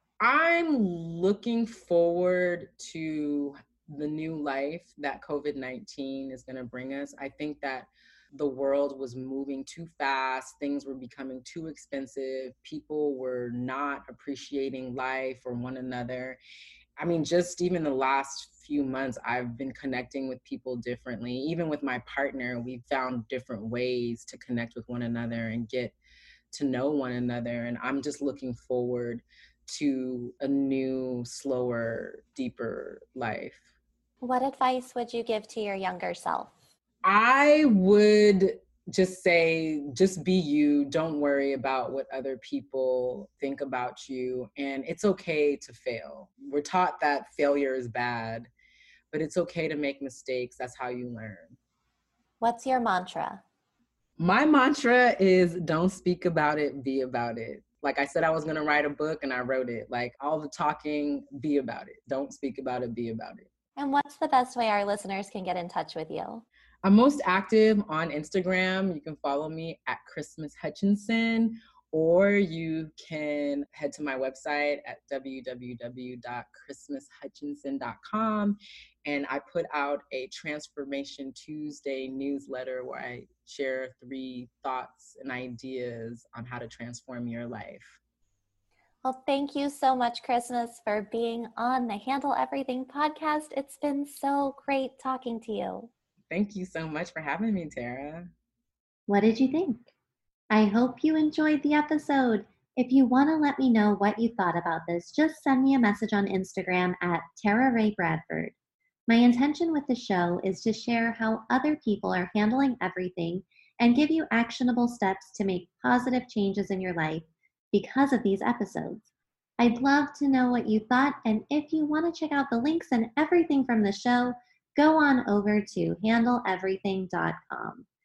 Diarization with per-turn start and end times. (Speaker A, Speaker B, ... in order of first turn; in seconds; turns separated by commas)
Speaker A: 0.2-16.4, Speaker A: 17.0-25.9, Speaker A: 26.5-33.6, Speaker B: 34.2-36.5, Speaker A: 37.0-48.5, Speaker A: 49.1-51.6, Speaker B: 52.4-53.4, Speaker A: 54.2-63.5, Speaker B: 63.8-66.5, Speaker A: 66.8-88.0, Speaker B: 89.0-95.9, Speaker A: 96.3-98.3, Speaker C: 99.1-99.9, Speaker C: 100.5-108.5, Speaker C: 109.1-119.0, Speaker C: 119.6-127.8